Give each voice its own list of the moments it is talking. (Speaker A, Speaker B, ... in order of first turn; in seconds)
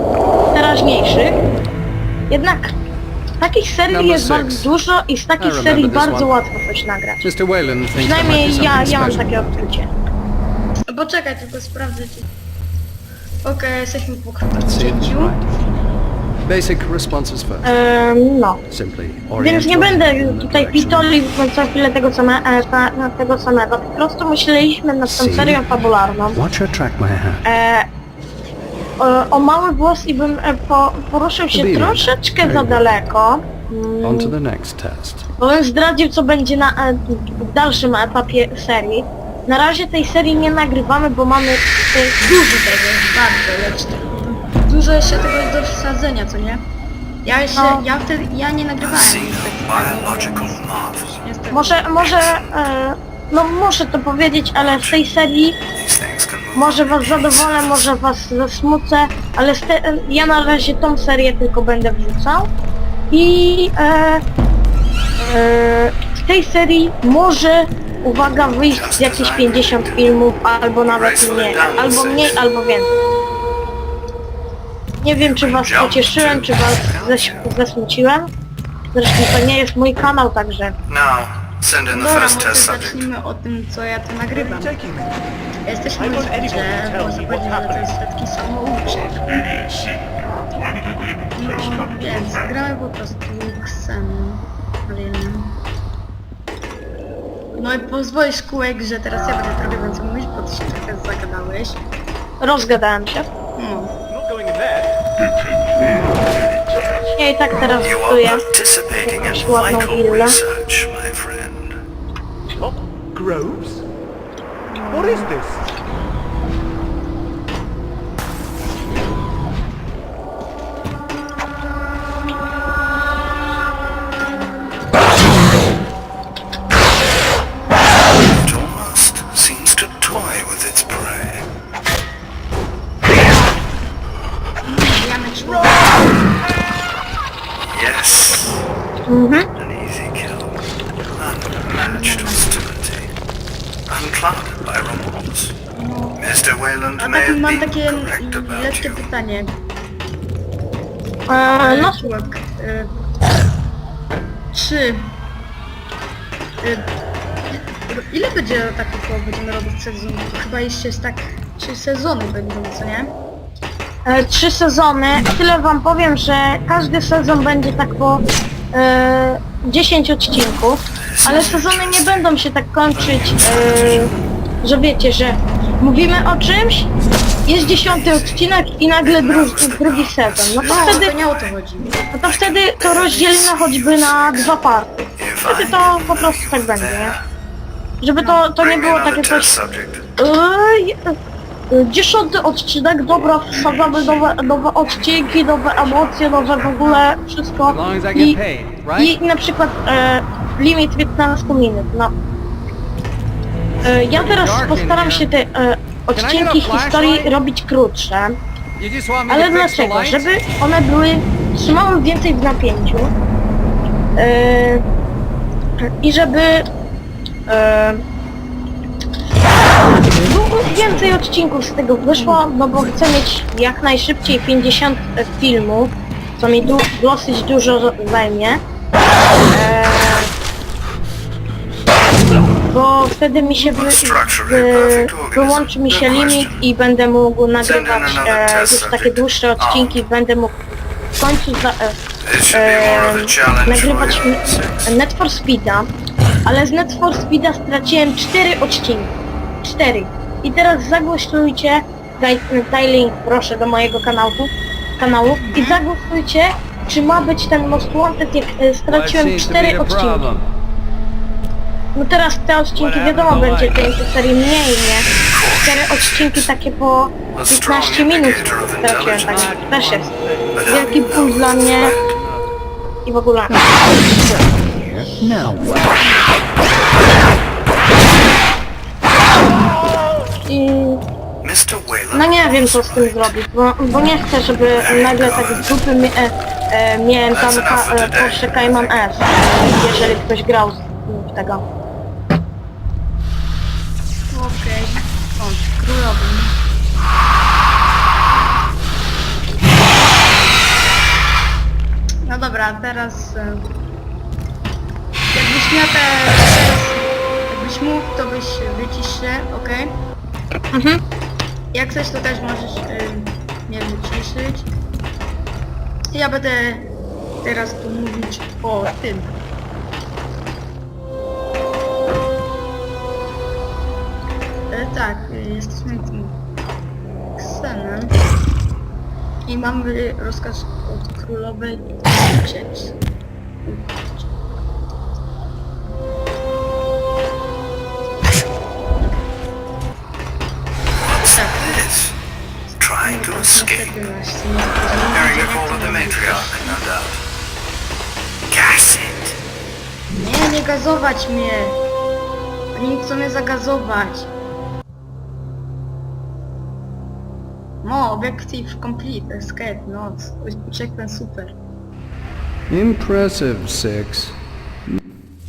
Speaker A: 0.5-1.4, 2.3-2.7, 3.4-7.2, 8.0-9.9, 17.6-18.6, 19.4-26.4, 27.4-27.9, 29.0-34.3, 35.4-42.2, 47.5-47.8, 51.5-55.6, 56.5-62.5, 63.1-64.2, 65.2-72.9, 75.0-78.3, 78.9-80.8, 102.4-103.3, 106.9-108.4, 109.0-110.4, 139.1-139.5, 151.3-152.1, 164.1-174.1, 174.6-176.9, 177.5-181.1, 182.1-187.2, 188.0-189.5, 190.2-191.2, 191.7-198.4, 199.0-202.1, 203.8-208.3, 209.3-213.1, 214.2-214.8, 215.8-216.7, 217.5-218.0, 220.0-228.6, 229.5-230.3, 232.7-240.6, 241.2-241.9, 242.5-245.9, 246.4-260.3, 261.9-265.1, 265.6-270.1, 270.7-271.9, 273.1-273.6, 280.5-281.0, 282.1-291.6, 310.7-311.0
Speaker B: 3.9-4.7, 5.4-6.3, 7.2-9.7, 14.5-15.7, 16.4-17.7, 18.7-21.1, 25.1-25.6, 26.3-27.4, 31.5-32.8, 34.0-35.2, 104.2-104.9, 112.7-113.8, 197.7-199.2, 204.1-205.3, 206.1-207.3, 208.8-210.3, 258.9-260.4, 262.8-263.8, 269.3-271.1, 271.7-272.6, 273.5-275.9, 362.7-364.4
Speaker C: 10.9-12.3, 13.4-15.4, 42.2-46.6, 47.2-50.6, 51.2-51.9, 81.9-84.8, 85.7-89.4, 91.4-95.6, 97.5-101.8, 103.6-103.9, 114.7-115.3, 134.6-136.1, 141.8-142.6, 145.7-146.2, 147.0-149.5, 151.6-152.9, 154.5-155.2, 156.6-156.9, 157.5-163.1, 171.2-171.6, 180.6-181.9, 188.2-188.4, 196.8-197.1, 222.2-222.4, 255.4-255.8, 294.3-296.6, 302.2-303.7, 305.3-310.0, 311.7-314.7, 316.1-319.4, 324.7-326.4, 327.4-328.1, 329.5-332.9, 333.6-334.3, 341.1-341.8, 343.0-346.8, 350.1-351.8, 352.7-354.3, 357.8-361.6
Speaker D: 48.8-51.2, 52.0-52.5, 54.7-55.0, 55.7-57.9, 68.7-70.2, 70.9-72.4, 75.2-77.5, 80.9-83.1, 107.8-111.8, 128.4-131.4, 137.7-138.6, 139.6-143.1, 143.9-145.6, 146.2-149.1, 171.1-172.3, 172.9-174.2, 177.6-178.5, 179.0-181.5, 182.2-184.6, 185.2-187.2, 188.6-190.1, 195.1-196.5, 233.6-236.6, 237.6-239.9, 242.2-244.9, 265.3-266.5, 267.4-269.5, 270.6-272.1, 281.4-283.4, 284.8-285.8, 287.3-289.1, 341.2-342.1, 342.8-344.0, 345.1-347.2, 348.5-349.4